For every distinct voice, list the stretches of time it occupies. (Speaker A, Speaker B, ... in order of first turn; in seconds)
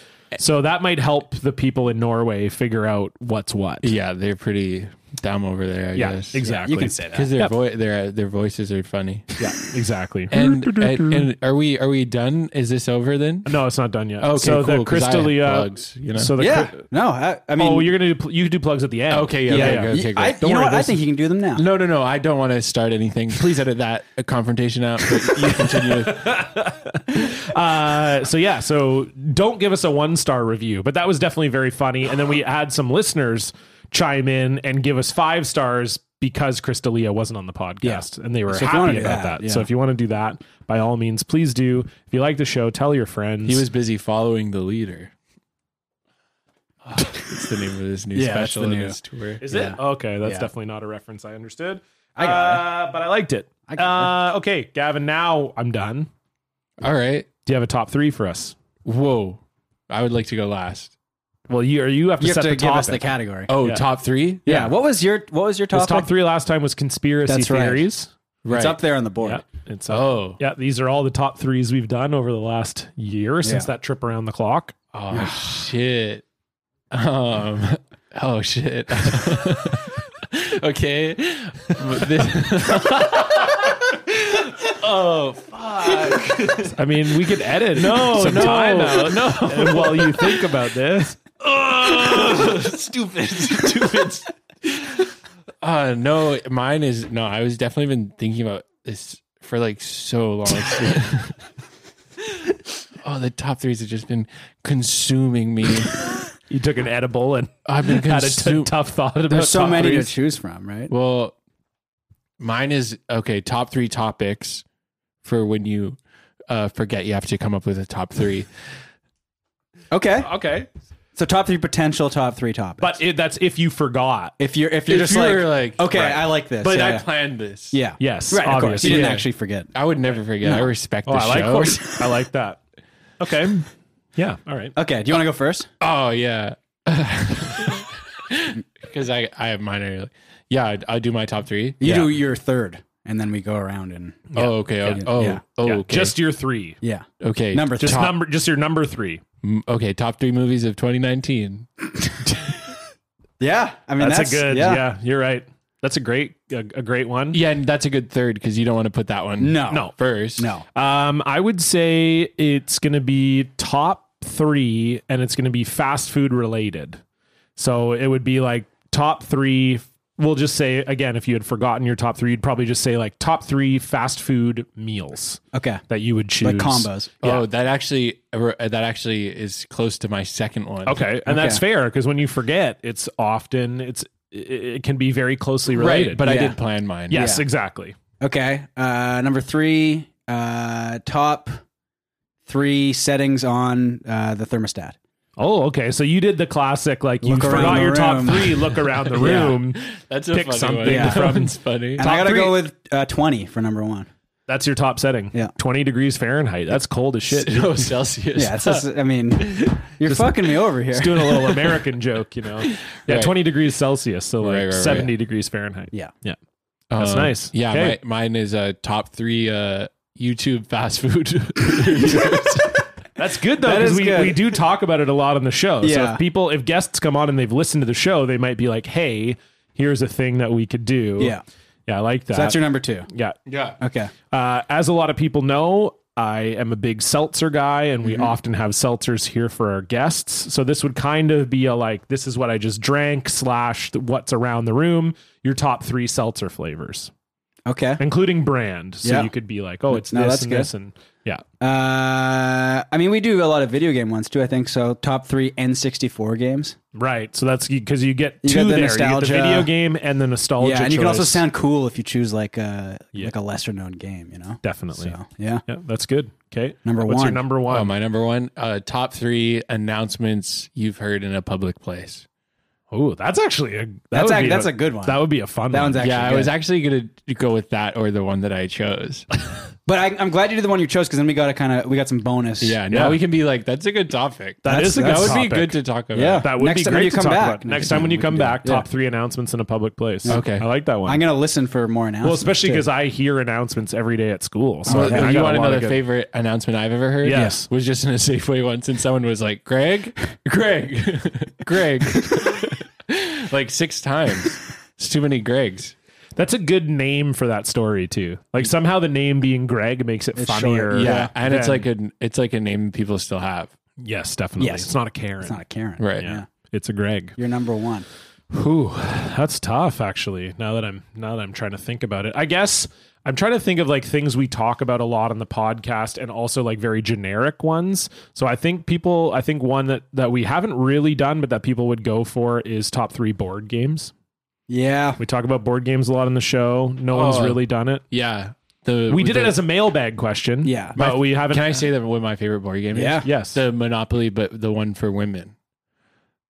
Speaker A: 0.4-3.9, 6.0-7.5, 9.4-11.3, 13.4-16.9, 17.6-19.9, 25.7-43.6, 49.4-56.1, 57.5-58.6, 61.5-63.1, 64.5-64.7, 65.7-68.1, 69.2-74.8, 86.6-91.2, 106.5-110.1, 120.2-120.7, 122.8-124.3, 128.0-129.2, 131.1-132.6, 133.2-134.7, 144.3-145.1, 145.6-146.8, 147.8-149.2, 154.0-157.4, 160.7-167.0, 167.6-177.4, 180.8-186.2, 187.1-187.9, 195.4-202.7, 204.5-207.9, 210.9-216.4, 217.0-218.0, 223.2-231.3, 231.9-232.6, 233.1-233.4, 234.3-247.1, 248.0-251.4, 256.9-261.4, 264.6-267.9, 272.9-276.1, 282.9-283.2, 284.6-285.8, 286.4-291.2, 292.2-296.0, 297.2-297.7, 306.4-311.9, 314.0-315.6, 316.2-317.4, 318.5-334.1, 335.2-338.0, 339.1-341.8, 343.2-343.6
Speaker B: 3.8-6.4, 7.1-9.4, 10.3-13.5, 14.2-16.3, 19.1-21.0, 21.6-26.4, 43.5-45.1, 46.9-49.4, 56.8-57.3, 58.9-60.9, 63.5-64.5, 68.5-68.8, 69.9-70.4, 74.9-76.2, 76.9-90.5, 91.4-95.1, 95.6-101.4, 103.0-106.1, 107.7-108.7, 110.9-111.4, 112.4-114.6, 115.2-118.5, 124.9-127.8, 128.8-132.0, 135.8-142.2, 144.3-146.2, 147.2-148.2, 149.4-151.7, 157.3-160.5, 177.2-181.1, 185.7-187.3, 198.9-202.1, 207.3-210.4, 212.6-213.4, 214.4-215.1, 216.9-222.8, 233.5-233.8, 267.7-272.2, 276.0-279.3, 282.6-286.5, 290.3-290.6, 294.9-305.9, 310.9-313.7, 316.0-316.3, 337.1-339.6, 341.0-345.5
Speaker C: 6.4-7.3, 16.4-17.9, 19.5-21.6, 37.8-39.7, 48.1-50.5, 52.2-52.7, 53.7-54.1, 62.2-63.5, 64.5-66.1, 67.3-67.9, 68.5-69.5, 73.4-73.7, 109.3-110.9, 119.9-120.3, 121.2-123.0, 124.4-127.1, 127.7-129.7, 130.4-130.7, 134.8-135.7, 141.8-144.3, 144.9-145.4, 146.8-148.1, 153.4-154.8, 159.4-160.7, 175.5-175.8, 176.4-177.2, 181.3-181.6, 186.2-186.6, 187.1-187.4, 188.2-191.6, 192.5-195.0, 197.2-199.6, 200.8-201.3, 202.0-204.1, 208.3-211.6, 223.6-224.6, 225.8-226.2, 232.3-233.1, 233.8-234.1, 238.1-238.3, 247.7-248.0, 249.0-249.3, 249.9-250.7, 251.6-256.8, 258.4-259.7, 260.6-265.6, 266.9-267.4, 274.1-276.5, 279.9-282.8, 284.6-285.4, 286.1-288.9, 291.0-292.9, 294.9-295.4, 310.4-311.3, 314.6-316.5, 317.4-318.1, 334.7-335.2, 340.6-341.0, 342.9-343.3